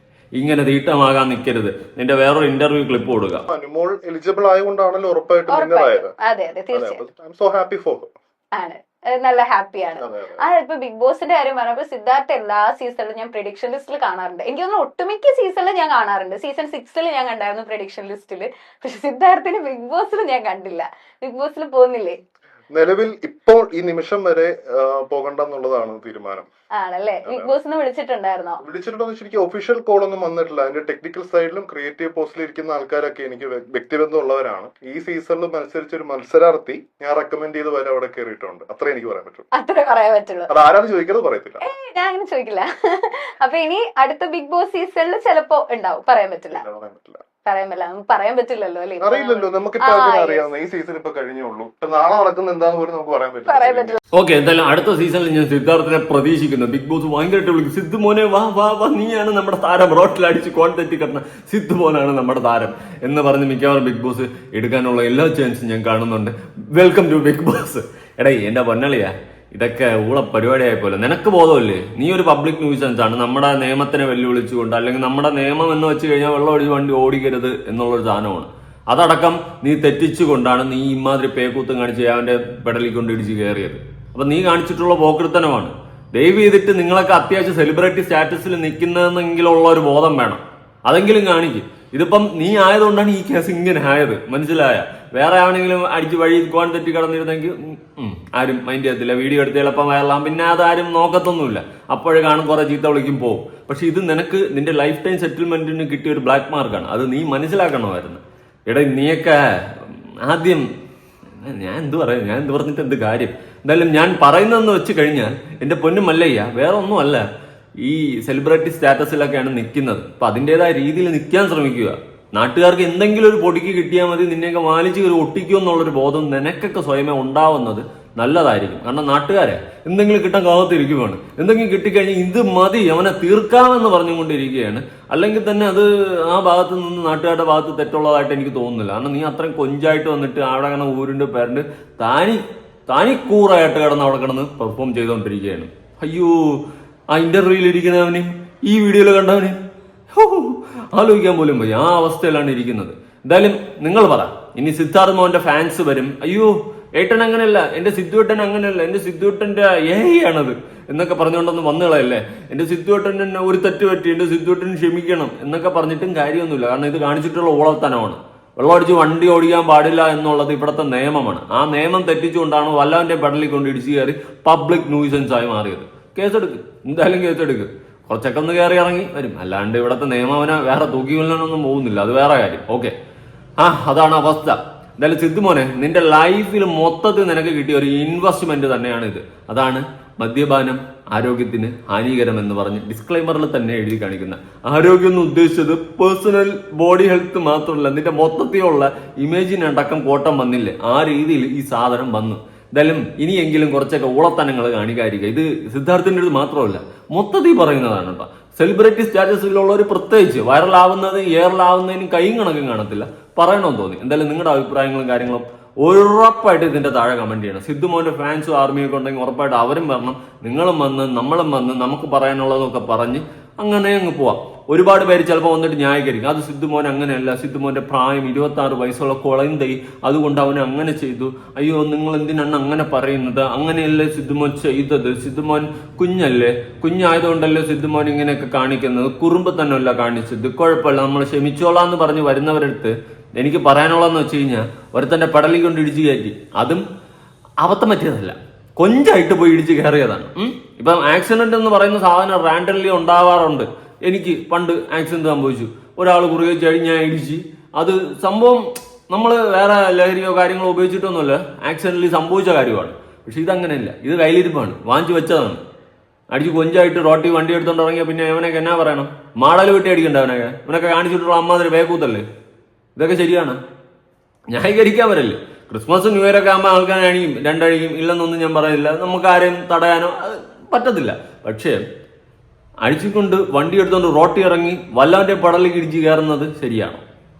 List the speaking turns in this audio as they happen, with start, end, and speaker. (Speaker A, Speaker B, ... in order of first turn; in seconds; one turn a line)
Speaker A: 0.4-3.4
Speaker B: 3.5-6.1
Speaker C: 5.5-7.0
Speaker B: 6.7-8.1
Speaker C: 8.6-22.2
Speaker B: 10.0-10.4
Speaker B: 22.7-26.5
Speaker C: 26.8-28.6
Speaker B: 27.2-27.6
Speaker B: 28.6-39.5
Speaker C: 39.5-40.5
Speaker B: 40.5-41.6
Speaker C: 41.6-46.6
Speaker B: 46.5-47.2
Speaker C: 47.5-50.4
Speaker B: 49.0-54.0
Speaker C: 53.5-54.0
Speaker A: 54.1-110.7
Speaker A: 111.4-117.2
Speaker A: 117.8-149.6
Speaker A: 150.1-182.9
Speaker A: 183.6-246.8
Speaker A: 247.6-265.6
Speaker A: 266.3-272.2
Speaker A: 273.0-273.6
Speaker A: 274.5-281.8
Speaker A: 282.9-287.0